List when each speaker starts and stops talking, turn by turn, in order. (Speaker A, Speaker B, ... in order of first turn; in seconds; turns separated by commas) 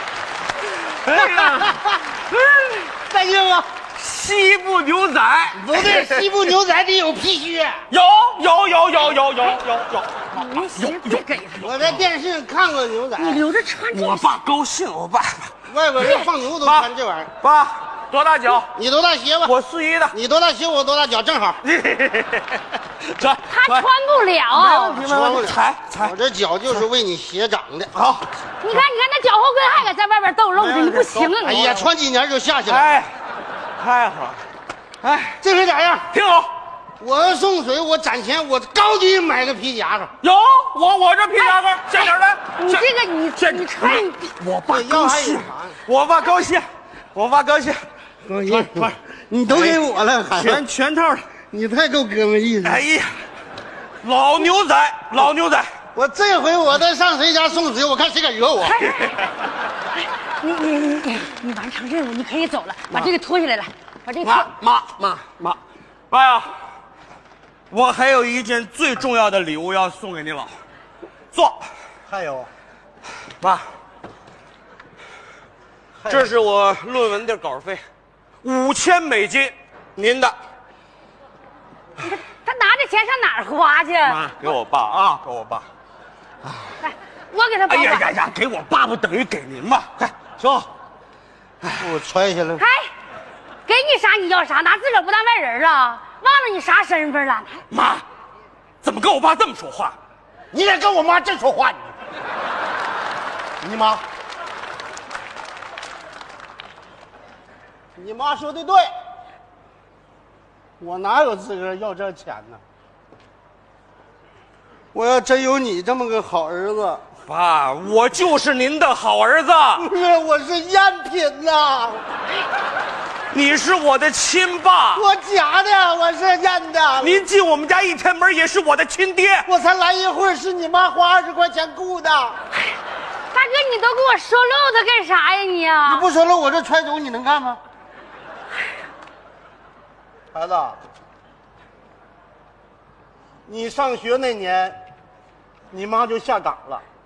Speaker A: 0.9-2.9, Speaker B: 1.2-1.8, Speaker B: 3.1-3.7, Speaker A: 4.0-6.3, Speaker B: 5.5-7.8, Speaker A: 7.9-11.2, Speaker C: 10.3-11.7, Speaker B: 11.6-13.4, Speaker C: 13.2-14.4, Speaker A: 13.9-15.6, Speaker B: 15.7-17.3, Speaker A: 17.4-18.7, Speaker B: 18.7-19.5, Speaker A: 19.4-20.2, Speaker B: 20.1-21.6, Speaker A: 21.6-23.9, Speaker C: 23.5-24.9, Speaker A: 24.5-26.2, Speaker B: 24.7-27.9, Speaker A: 27.9-28.3, Speaker C: 28.6-31.8, Speaker A: 30.6-31.4, Speaker B: 31.4-33.0, Speaker A: 32.7-33.1, Speaker A: 33.8-34.4, Speaker A: 35.0-35.4, Speaker B: 35.4-36.1, Speaker A: 36.1-36.5, Speaker B: 37.0-40.1, Speaker A: 40.2-47.9, Speaker C: 41.4-42.1, Speaker C: 42.6-44.3, Speaker B: 44.7-45.8, Speaker B: 48.2-50.6, Speaker A: 48.5-49.0, Speaker A: 49.5-49.8, Speaker A: 50.4-51.3, Speaker B: 51.5-52.9, Speaker A: 52.6-53.2, Speaker A: 54.0-55.7, Speaker B: 56.0-58.8, Speaker C: 58.6-59.2, Speaker C: 60.4-64.5, Speaker A: 64.2-65.6, Speaker A: 66.1-66.5, Speaker A: 67.7-70.6, Speaker A: 71.3-71.7, Speaker B: 72.1-72.5, Speaker A: 73.4-73.7, Speaker B: 76.0-76.3, Speaker A: 76.1-77.8, Speaker A: 78.4-80.3, Speaker C: 82.0-84.2, Speaker A: 84.0-85.7, Speaker C: 86.8-88.1, Speaker A: 87.7-90.4, Speaker A: 91.6-91.9, Speaker B: 91.8-92.6, Speaker C: 92.6-92.9, Speaker C: 93.7-97.6, Speaker A: 97.7-98.0, Speaker A: 98.8-100.0, Speaker B: 100.5-101.9, Speaker B: 103.6-104.0, Speaker B: 108.0-108.9, Speaker B: 110.8-112.6, Speaker B: 114.9-117.0, Speaker A: 117.3-119.9, Speaker B: 119.8-122.0, Speaker A: 123.3-125.0, Speaker B: 124.9-127.2, Speaker A: 127.0-129.5, Speaker B: 129.4-132.4, Speaker C: 133.3-136.1, Speaker B: 135.9-137.6, Speaker B: 140.3-140.8, Speaker B: 143.5-144.8, Speaker B: 145.7-146.8